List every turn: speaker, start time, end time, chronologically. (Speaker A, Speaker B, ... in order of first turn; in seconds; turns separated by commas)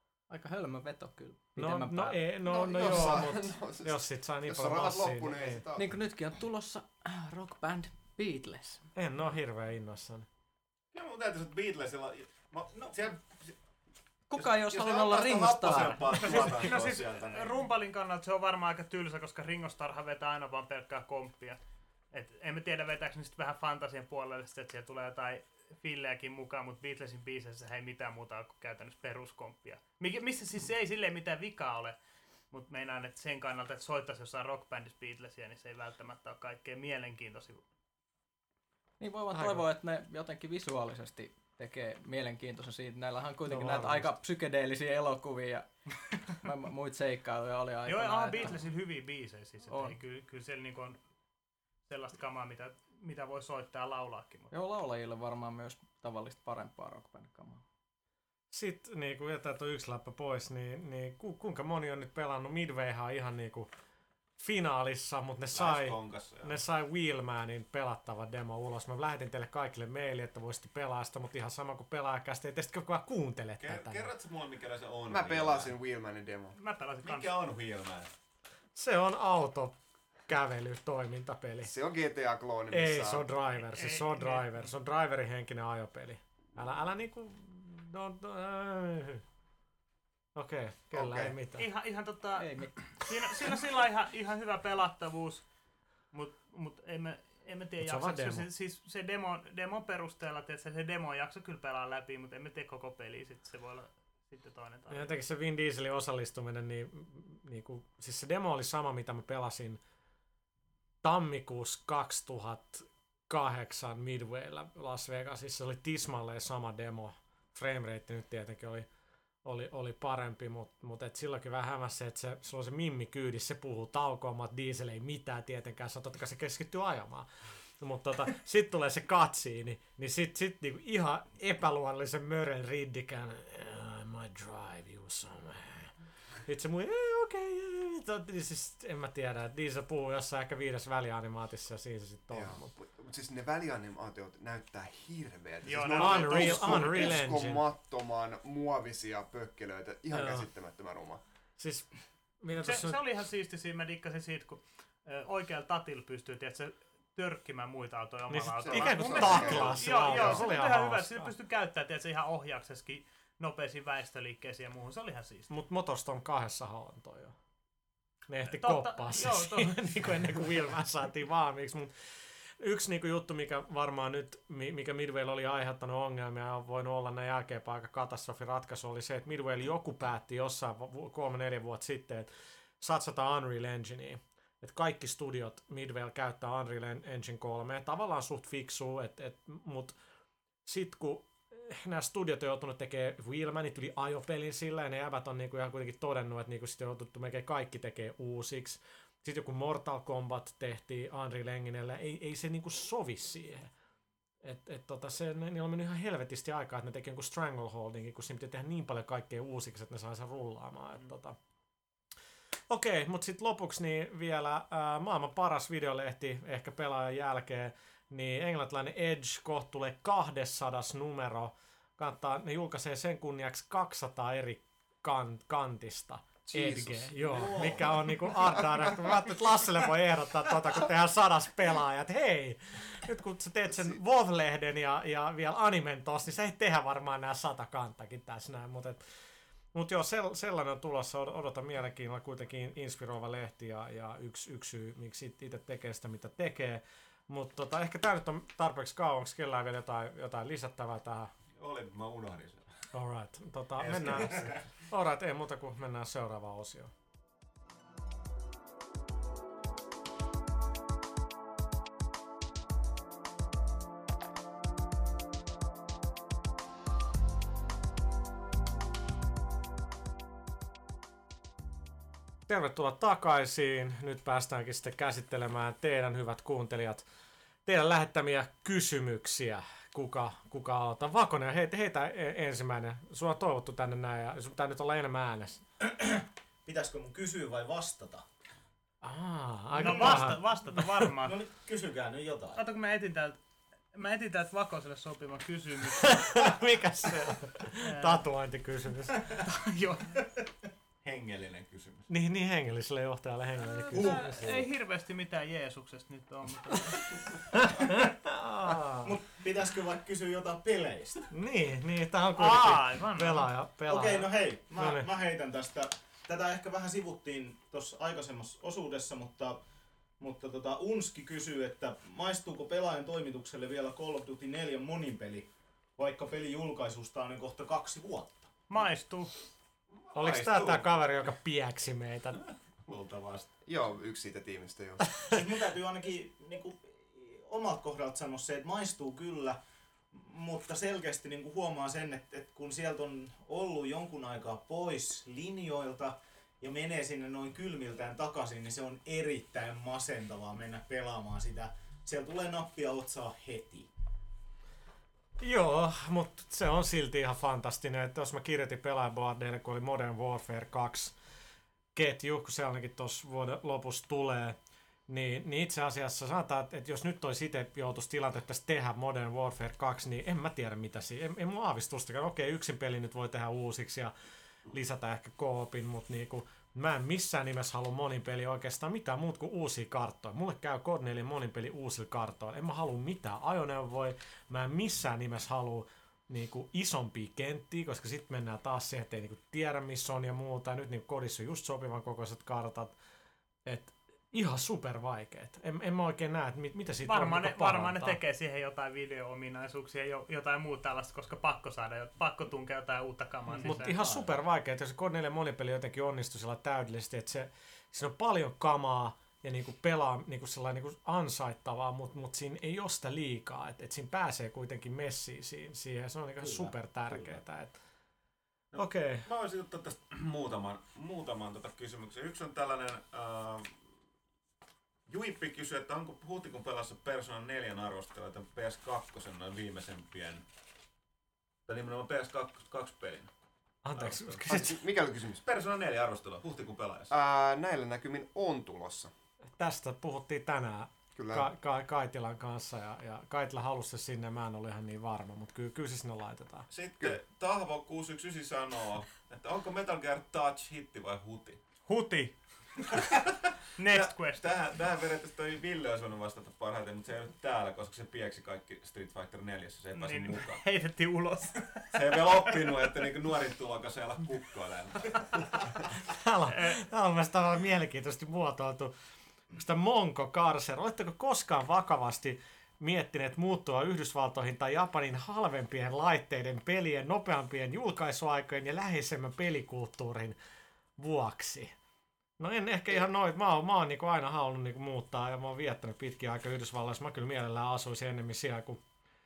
Speaker A: 0.3-2.2, Speaker B: 1.6-5.6, Speaker C: 2.4-5.9, Speaker A: 5.8-8.9, Speaker B: 8.9-10.3, Speaker D: 10.9-13.5, Speaker A: 14.3-16.0, Speaker D: 14.4-17.6, Speaker E: 16.1-21.6, Speaker E: 22.1-32.0, Speaker E: 32.5-37.6, Speaker A: 39.0-48.5, Speaker B: 39.3-39.6, Speaker B: 43.5-44.1, Speaker E: 47.9-51.0, Speaker A: 49.7-50.0, Speaker E: 51.9-54.5, Speaker A: 54.5-57.6, Speaker B: 58.5-63.7, Speaker B: 64.4-74.0, Speaker D: 65.5-66.6, Speaker D: 73.6-75.7, Speaker C: 75.1-76.6, Speaker E: 76.5-77.3, Speaker D: 77.0-78.1, Speaker B: 78.7-79.8, Speaker B: 80.3-81.7, Speaker C: 81.6-83.3, Speaker B: 82.7-89.2, Speaker E: 83.7-84.4, Speaker B: 90.3-91.7, Speaker C: 90.9-91.3, Speaker E: 91.5-95.4, Speaker A: 92.3-92.8, Speaker E: 96.1-105.2, Speaker B: 97.8-98.5, Speaker B: 104.9-109.8, Speaker B: 111.0-118.9, Speaker B: 119.4-135.9, Speaker B: 136.4-142.7, Speaker C: 142.3-151.2, Speaker E: 145.6-147.2, Speaker B: 145.9-147.6, Speaker B: 150.1-150.5, Speaker B: 151.6-153.0, Speaker E: 152.6-165.5, Speaker B: 158.3-161.3, Speaker C: 158.6-160.4, Speaker B: 165.5-167.3, Speaker B: 168.3-171.9, Speaker E: 168.4-170.4, Speaker B: 172.6-190.0, Speaker B: 190.7-203.7, Speaker B: 204.4-211.3, Speaker B: 212.7-239.0, Speaker C: 226.5-227.8, Speaker B: 239.7-251.3, Speaker D: 251.6-252.6, Speaker B: 252.9-256.9, Speaker D: 253.8-254.6, Speaker B: 272.5-277.0, Speaker B: 277.6-285.6, Speaker F: 285.8-288.2, Speaker B: 289.0-290.4, Speaker F: 289.8-290.3, Speaker E: 289.8-291.4, Speaker F: 291.2-292.6, Speaker E: 292.6-293.4, Speaker E: 293.9-296.1, Speaker B: 296.0-299.2, Speaker E: 297.8-298.3, Speaker E: 299.4-300.2, Speaker D: 301.0-302.1, Speaker B: 302.1-304.6, Speaker E: 303.9-307.0, Speaker F: 303.9-304.4, Speaker B: 307.6-309.1, Speaker F: 309.0-311.3, Speaker B: 311.3-315.1, Speaker E: 312.4-313.5, Speaker F: 313.9-319.6, Speaker F: 320.2-328.6, Speaker E: 328.7-329.3, Speaker D: 330.0-331.3, Speaker B: 330.1-332.4, Speaker D: 332.8-333.5, Speaker C: 333.7-335.0, Speaker F: 335.3-339.6, Speaker F: 340.1-353.9, Speaker B: 355.4-361.1, Speaker B: 361.9-364.6, Speaker B: 365.1-374.1, Speaker B: 374.7-392.9, Speaker B: 393.6-398.2, Speaker E: 397.1-404.3, Speaker F: 403.6-404.1, Speaker B: 403.6-417.8, Speaker F: 416.4-417.3, Speaker D: 418.7-423.8, Speaker B: 418.8-419.3, Speaker D: 425.1-430.4, Speaker D: 431.7-433.3, Speaker B: 433.8-434.9, Speaker D: 433.9-434.4, Speaker C: 434.4-435.4, Speaker D: 435.4-437.1, Speaker C: 437.1-439.1, Speaker B: 439.6-446.7, Speaker C: 441.1-441.5, Speaker D: 446.7-451.6, Speaker E: 451.9-452.3, Speaker D: 452.9-460.6, Speaker E: 453.8-454.5, Speaker E: 459.9-462.5, Speaker D: 461.9-465.8, Speaker B: 466.0-468.9, Speaker E: 466.5-466.8, Speaker B: 469.5-480.4, Speaker B: 481.0-481.7, Speaker B: 482.4-488.8